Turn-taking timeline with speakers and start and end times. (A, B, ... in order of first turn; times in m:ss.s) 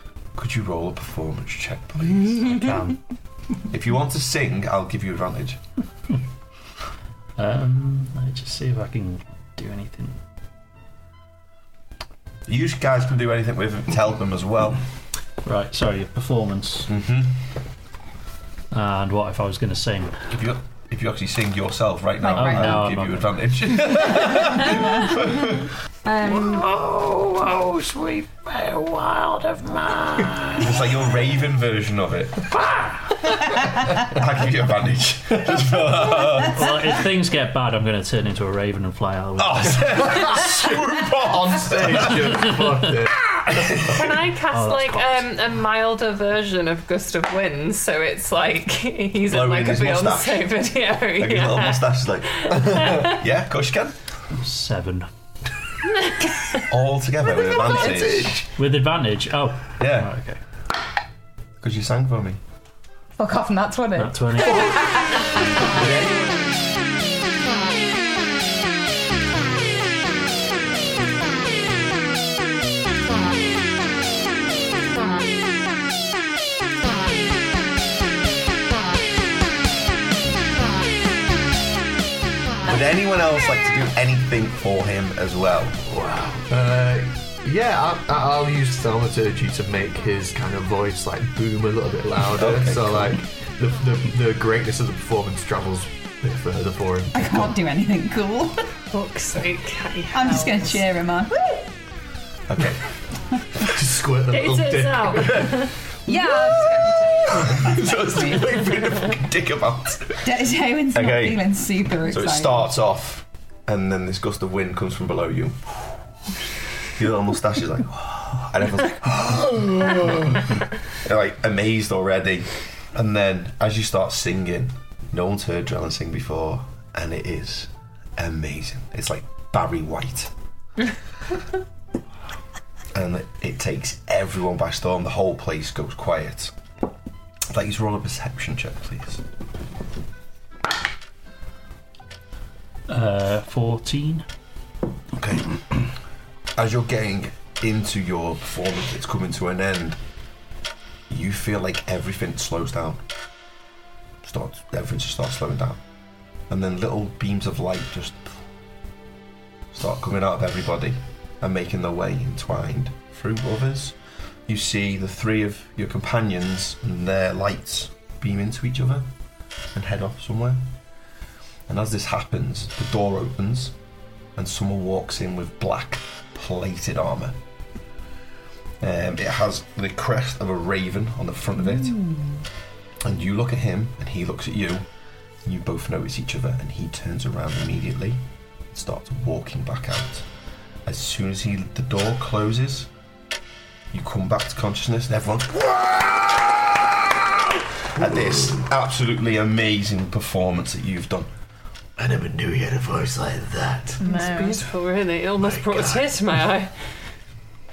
0:00.3-0:02.7 A
0:02.4-0:03.0 B
0:03.7-0:05.6 A
0:07.4-0:10.2 B
0:12.4-0:14.8 A
0:15.4-0:16.9 B
0:16.9-0:17.4 A
0:18.7-0:20.2 B
0:20.3-0:25.7 A
0:22.2-0:22.8 C
0:22.3-0:23.3 B
0:26.0-0:26.6 C
0:26.2-0:30.9 B
0:30.6-0:32.6 A
0:32.5-0:33.2 B
0:33.9-0:36.8 A
0:36.1-0:40.2 B
0:39.4-0:42.5 A
0:40.1-0:40.4 D
0:41.1-0:43.8 D
0:43.3-0:44.2 A
0:43.8-0:53.2 E
0:44.5-0:45.2 B
0:49.3-0:50.5 A
0:51.2-0:54.0 A
0:54.3-0:55.1 B
0:56.0-0:56.6 E
0:56.7-0:58.4 A
0:57.5-0:58.5 D
0:58.5-1:00.4 B
0:59.8-1:00.1 A
1:01.6-1:02.4 A
1:03.2-1:05.8 C
1:04.0-1:04.9 B
1:05.6-1:06.4 A
1:22.6-1:25.8 A
1:25.8-1:26.5 F
1:26.5-1:37.5 D
1:32.3-1:33.2 A
1:37.1-1:38.7 C
1:38.9-1:40.8 E
1:40.1-1:41.6 C
1:42.5-1:42.8 A
1:43.6-1:45.7 D
1:44.3-1:45.8 E
1:46.0-1:48.6 C
1:47.3-1:50.3 A
1:50.2-1:52.7 C
1:50.9-1:51.5 A
1:52.0-1:55.6 A
1:56.8-2:10.3 A
2:12.9-2:16.5 A
2:17.5-2:19.2 A
2:22.9-2:24.2 B
2:25.1-2:25.6 A
2:26.6-2:30.0 A
2:31.1-2:33.0 A
2:34.2-2:35.8 A
2:36.5-2:38.3 A
2:39.7-2:49.1 A
2:49.7-2:50.6 A
2:51.7-2:53.7 A
2:54.4-2:57.4 A
2:58.8-3:02.0 A
3:01.6-3:02.4 C
3:03.0-3:04.8 A
3:05.4-3:10.3 A
3:10.8-3:12.9 A
3:13.9-3:21.3 A
3:18.0-3:18.6 F
3:22.0-3:24.0 F
3:24.0-3:24.6 C
3:24.0-3:26.7 E
3:25.4-3:26.2 F